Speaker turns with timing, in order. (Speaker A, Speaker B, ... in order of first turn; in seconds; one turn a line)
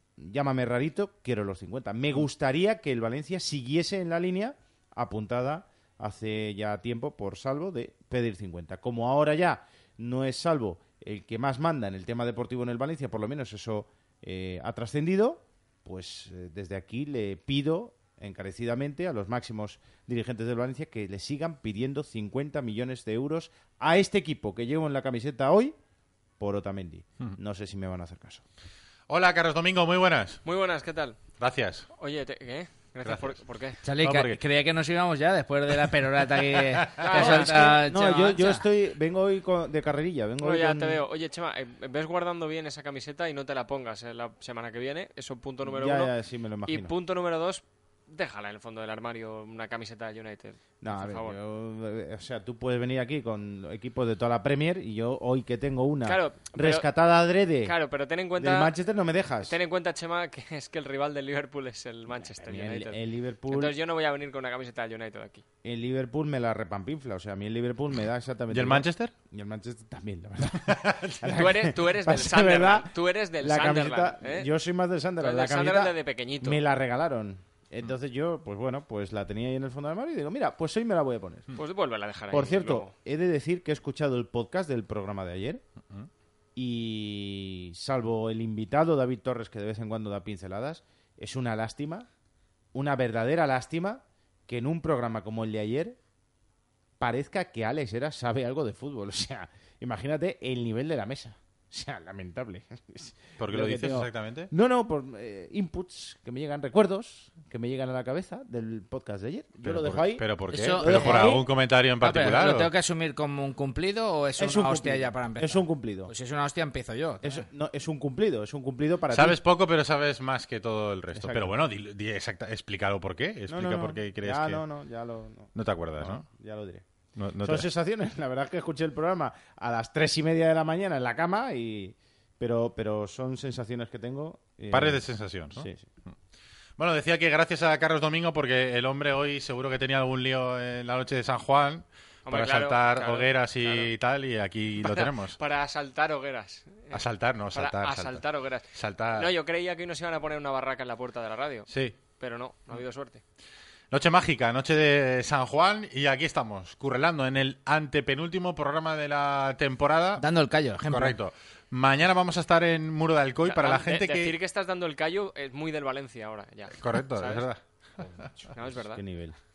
Speaker A: 0.2-25.8
Speaker A: 26.4-28.4
Speaker B: 29.1-30.4
Speaker C: 30.4-31.2
Speaker B: 31.4-31.9
Speaker C: 32.0-33.8
Speaker B: 33.0-33.4
Speaker D: 33.8-38.6
Speaker B: 34.0-34.4
Speaker C: 37.0-37.7
Speaker A: 37.1-41.0
Speaker C: 40.4-46.1
Speaker A: 45.6-46.9
Speaker C: 46.7-51.4
Speaker A: 50.8-57.8
Speaker C: 56.0-56.9
Speaker C: 57.6-58.7
Speaker A: 58.4-59.5
Speaker C: 59.4-65.4
Speaker A: 62.2-63.7
Speaker A: 65.6-81.5
Speaker B: 68.5-69.1
Speaker B: 70.6-71.2
Speaker C: 71.2-74.5
Speaker C: 75.2-76.6
Speaker C: 81.5-82.9
Speaker A: 82.3-85.6
Speaker A: 86.6-92.1
Speaker A: 92.7-96.0
Speaker A: 97.0-111.5
Speaker B: 103.4-104.5
Speaker B: 109.6-112.7
Speaker D: 110.5-111.4
Speaker D: 112.0-117.4
Speaker A: 114.4-116.1
Speaker A: 117.2-119.4
Speaker B: 119.1-124.6
Speaker A: 121.1-121.5
Speaker A: 123.5-126.8
Speaker B: 125.5-126.2
Speaker B: 127.2-127.7
Speaker A: 127.4-135.0
Speaker B: 134.7-135.7
Speaker A: 135.5-135.9
Speaker B: 136.8-145.4
Speaker C: 142.3-143.9
Speaker C: 144.8-147.0
Speaker B: 146.9-148.2
Speaker C: 147.5-153.2
Speaker B: 148.8-149.3
Speaker B: 151.7-152.0
Speaker B: 153.9-160.2
Speaker D: 160.2-161.2
Speaker B: 160.9-164.3
Speaker C: 163.4-167.5
Speaker B: 166.8-167.6
Speaker C: 168.5-169.0
Speaker A: 168.7-169.4